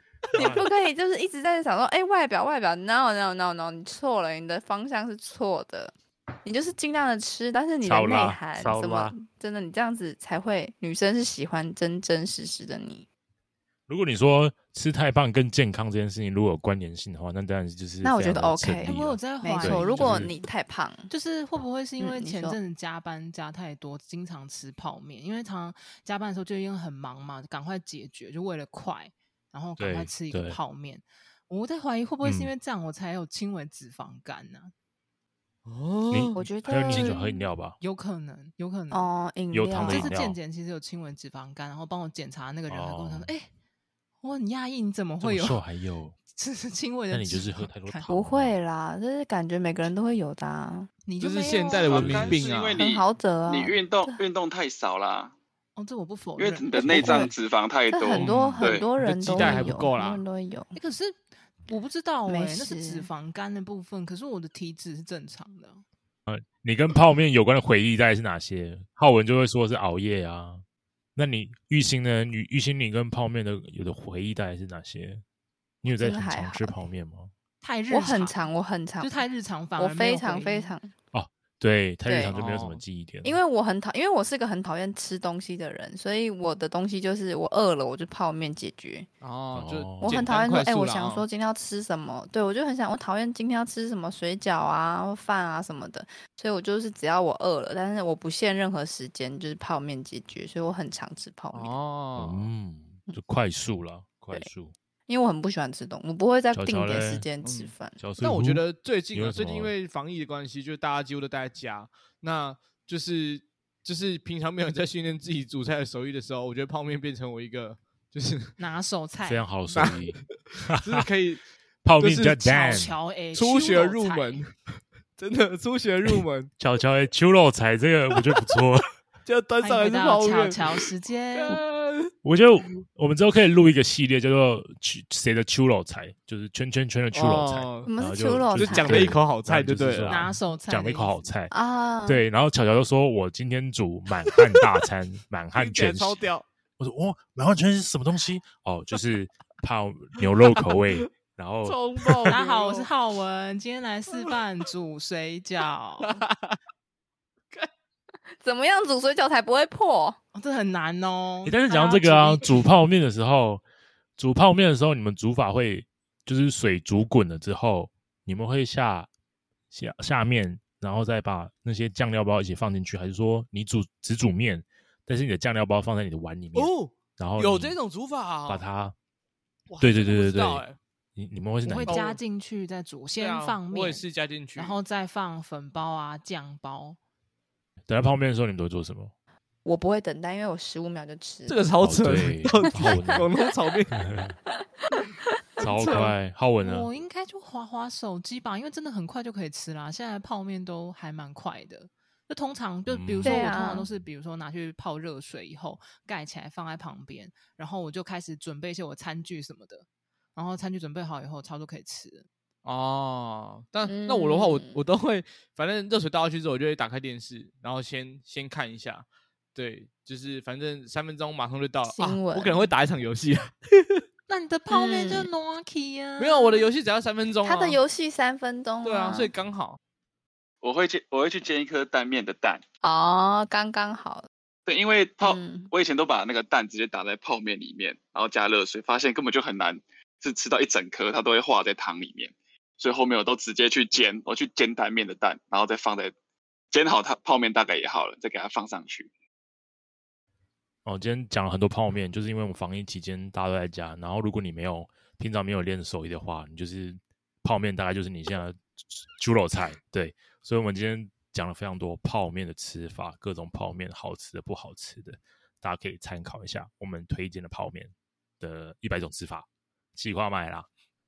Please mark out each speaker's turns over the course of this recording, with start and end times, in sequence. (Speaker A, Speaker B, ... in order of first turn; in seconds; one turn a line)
Speaker A: 0.3-0.7
Speaker B: 0.3-13.1
Speaker A: 7.8-9.2
Speaker A: 13.9-20.3
Speaker B: 18.0-21.1
Speaker C: 18.8-20.4
Speaker C: 21.1-34.7
Speaker B: 22.0-22.6
Speaker A: 29.8-30.6
Speaker A: 32.2-32.5
Speaker D: 35.7-36.4
Speaker A: 36.1-37.8
Speaker B: 36.4-37.5
Speaker C: 37.8-39.1
Speaker B: 38.9-40.1
Speaker A: 39.5-40.4
Speaker C: 39.7-43.5
Speaker A: 42.7-43.3
Speaker C: 44.2-45.6
Speaker A: 45.2-46.2
Speaker C: 46.3-48.1
Speaker A: 47.1-48.5
Speaker B: 48.1-50.9
Speaker C: 51.1-52.2
Speaker D: 51.2-52.8
Speaker E: 51.7-55.3
Speaker A: 52.0-52.4
Speaker B: 52.8-54.2
Speaker C: 55.8-56.9
Speaker E: 56.4-58.9
Speaker A: 56.8-57.3
Speaker B: 56.9-57.3
Speaker B: 57.9-60.8
Speaker D: 58.1-60.2
Speaker A: 58.3-58.7
Speaker C: 60.8-65.8
Speaker B: 62.3-63.1
Speaker A: 66.3-70.6
Speaker A: 71.2-75.2
Speaker A: 75.8-77.3
Speaker B: 75.9-76.8
Speaker C: 77.6-78.4
Speaker B: 77.9-79.2
Speaker C: 79.0-80.7
Speaker B: 79.8-80.9
Speaker A: 81.1-83.4
Speaker B: 82.0-82.4
Speaker D: 82.2-82.8
Speaker B: 83.2-89.1
Speaker D: 89.2-91.2
Speaker A: 89.5-90.2
Speaker B: 90.0-101.8
Speaker D: 101.5-102.5
Speaker A: 102.2-104.7
Speaker B: 105.1-108.0
Speaker A: 106.5-107.3
Speaker D: 107.4-118.6
Speaker A: 108.0-109.7
Speaker C: 118.6-119.6
Speaker A: 119.2-121.0
Speaker D: 119.7-121.4
Speaker A: 121.8-123.0
Speaker D: 122.0-122.4
Speaker C: 122.4-124.4
Speaker D: 123.3-124.5
Speaker D: 125.2-126.5
Speaker A: 126.1-128.9
Speaker D: 128.2-128.6
Speaker D: 129.2-132.1
Speaker C: 129.6-131.6
Speaker A: 132.2-141.5
Speaker D: 137.1-137.9
Speaker B: 137.9-139.1
Speaker D: 138.6-140.2
Speaker C: 140.1-141.2
Speaker B: 141.5-142.2
Speaker A: 142.1-146.2
Speaker D: 145.6-146.5
Speaker A: 146.8-152.4
Speaker D: 150.2-151.1
Speaker D: 151.6-152.9
Speaker C: 152.3-156.2
Speaker D: 156.0-156.6
Speaker B: 158.4-160.2
Speaker C: 160.3-162.6
Speaker A: 161.4-163.6
Speaker A: 164.2-169.1
Speaker A: 169.7-177.8
Speaker D: 176.6-178.7
Speaker A: 178.5-178.9
Speaker D: 179.7-180.8
Speaker A: 179.8-182.0
Speaker C: 181.7-187.0
Speaker D: 181.9-182.2
Speaker D: 183.2-184.8
Speaker A: 187.9-189.1
Speaker B: 189.7-191.6
Speaker D: 191.5-193.9
Speaker A: 191.8-193.3
Speaker B: 192.7-193.2
Speaker A: 194.0-194.3
Speaker A: 195.6-196.9
Speaker C: 195.6-212.3
Speaker A: 202.9-203.5
Speaker B: 203.2-203.9
Speaker D: 212.7-224.0
Speaker B: 213.8-214.8
Speaker B: 221.9-222.7
Speaker C: 224.3-226.7
Speaker B: 224.7-225.3
Speaker D: 226.2-227.8
Speaker B: 227.4-229.3
Speaker D: 228.8-229.8
Speaker E: 230.6-232.6
Speaker B: 232.8-234.3
Speaker E: 234.7-246.1
Speaker B: 235.2-235.7
Speaker E: 246.7-249.1
Speaker A: 250.8-270.7